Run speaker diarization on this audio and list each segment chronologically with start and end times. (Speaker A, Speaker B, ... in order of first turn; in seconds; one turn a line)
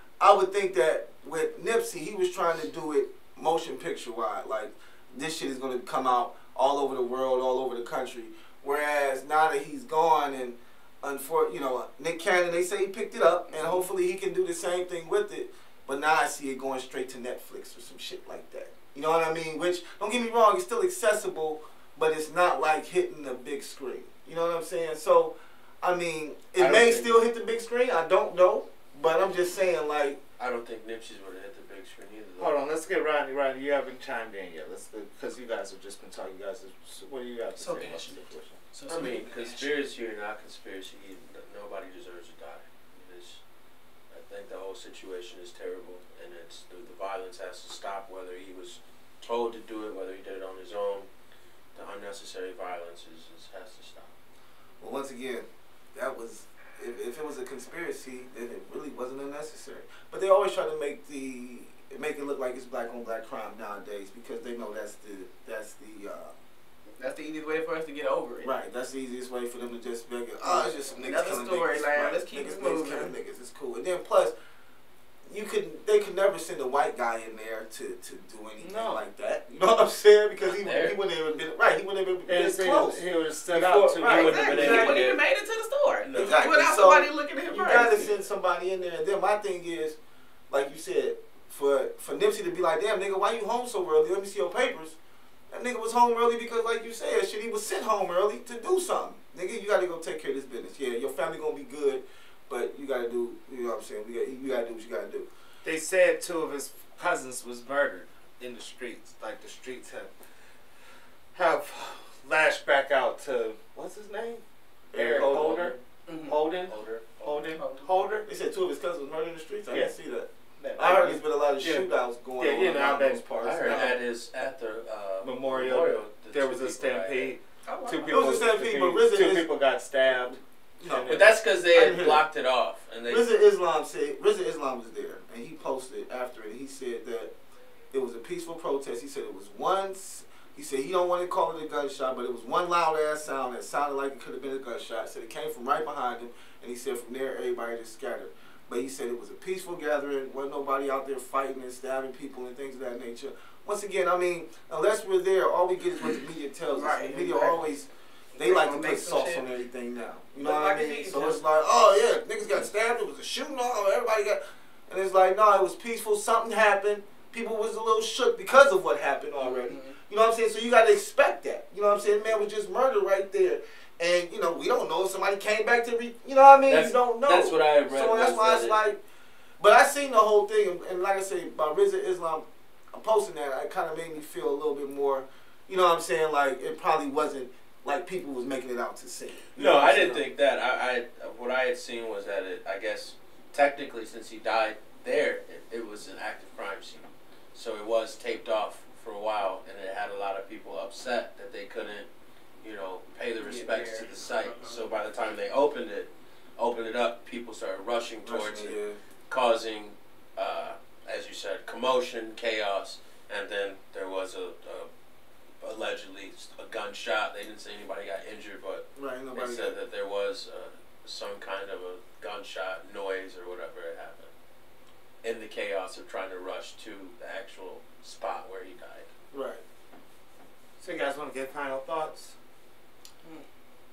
Speaker A: 0.2-30.2
Speaker B: 13.5-13.9
Speaker C: 26.6-27.2
Speaker C: 30.4-32.5
Speaker D: 32.4-38.5
Speaker B: 37.6-39.7
Speaker C: 38.9-43.4
Speaker C: 44.1-51.1
Speaker C: 51.7-54.1
Speaker A: 54.8-66.3
Speaker B: 67.0-68.5
Speaker A: 68.4-74.3
Speaker B: 70.4-73.1
Speaker A: 75.3-84.2
Speaker D: 78.6-79.0
Speaker C: 80.4-81.0
Speaker D: 82.2-85.0
Speaker B: 84.0-88.2
Speaker C: 84.1-85.2
Speaker C: 86.0-86.4
Speaker A: 86.1-90.0
Speaker A: 90.5-95.0
Speaker A: 95.5-105.3
Speaker D: 105.6-110.1
Speaker D: 111.3-114.4
Speaker A: 114.9-115.8
Speaker D: 114.9-118.2
Speaker B: 116.1-116.4
Speaker C: 116.7-117.5
Speaker B: 117.4-118.1
Speaker A: 118.2-124.0
Speaker D: 120.6-123.9
Speaker C: 123.4-127.4
Speaker D: 125.2-131.3
Speaker B: 127.6-128.2
Speaker A: 128.1-129.5
Speaker A: 130.8-131.1
Speaker C: 131.1-133.3
Speaker A: 131.7-132.3
Speaker A: 133.1-137.3
Speaker A: 137.9-179.0
Speaker B: 156.7-157.8
Speaker B: 158.3-159.6
Speaker B: 160.4-161.4
Speaker B: 169.4-170.0
Speaker C: 176.7-178.8
Speaker A: 179.6-190.2
Speaker C: 189.5-202.1
Speaker C: 202.6-214.9
Speaker B: 203.4-204.9
Speaker A: 208.2-209.0
Speaker C: 215.6-224.3
Speaker A: 218.9-219.8
Speaker C: 225.2-229.1
Speaker A: 229.3-229.6
Speaker D: 230.8-232.3